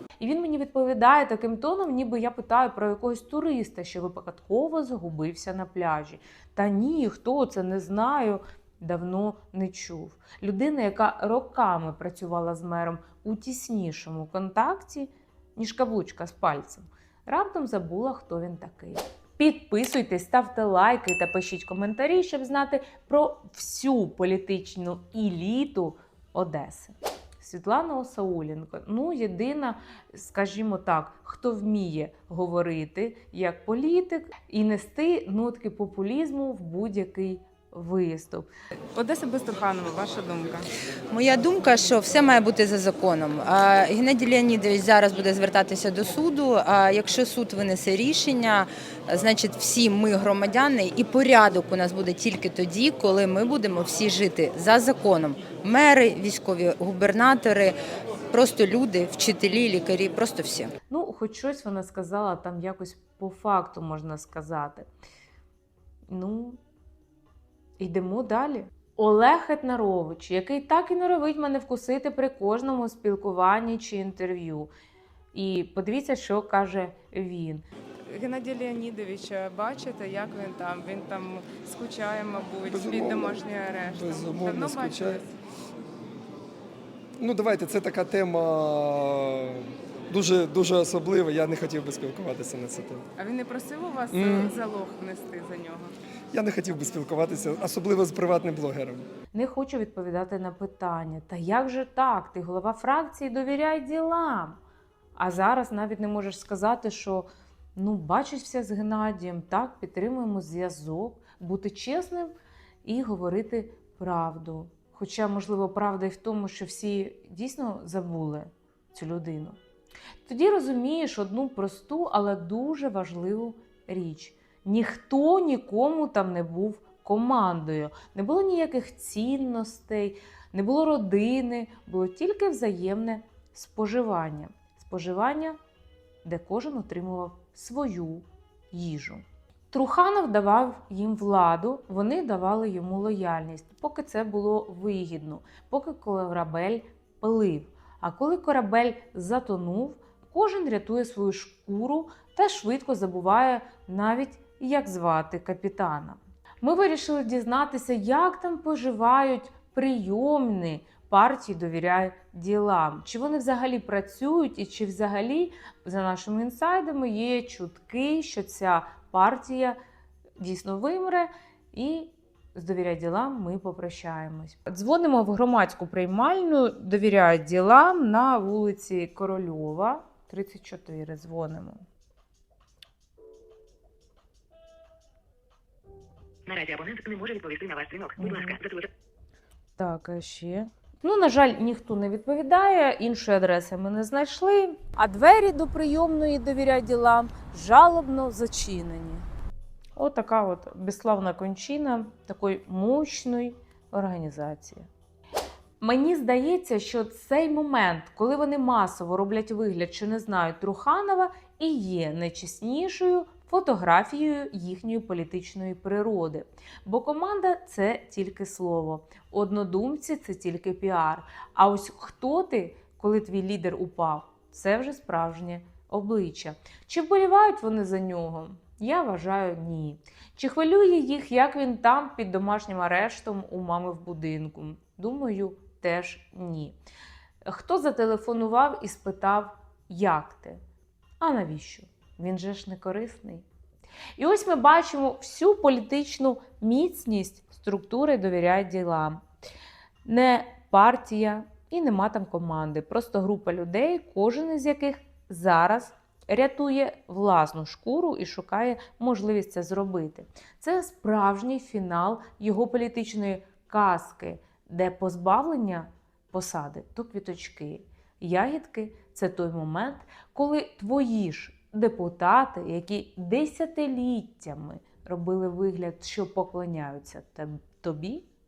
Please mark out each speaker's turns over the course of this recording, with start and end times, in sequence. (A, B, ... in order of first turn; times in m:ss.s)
0:00.2-0:38.5 A
0:38.9-0:40.7 B
0:41.1-0:57.8 C
0:58.3-1:00.7 C
1:00.9-1:04.9 A
1:06.1-1:06.6 A
1:07.8-1:14.7 A
1:15.3-1:17.6 A
1:18.1-1:25.2 B
1:22.6-1:25.2 D
1:27.2-1:33.0 D
1:33.2-1:36.0 B
1:34.1-1:34.6 D
1:36.3-1:39.1 D
1:39.3-1:44.6 A
1:45.2-1:52.3 A
1:52.8-1:59.6 A
2:00.3-2:15.6 A
2:16.2-2:49.8 A
2:50.4-3:01.8 A
3:06.5-3:08.8 E
3:08.2-3:08.6 A
3:09.8-3:19.3 A
3:20.0-3:24.9 A
3:25.8-3:56.8 A
3:57.4-4:00.6 A
4:01.2-4:03.4 A
4:04.2-4:09.2 A
4:10.0-4:38.2 A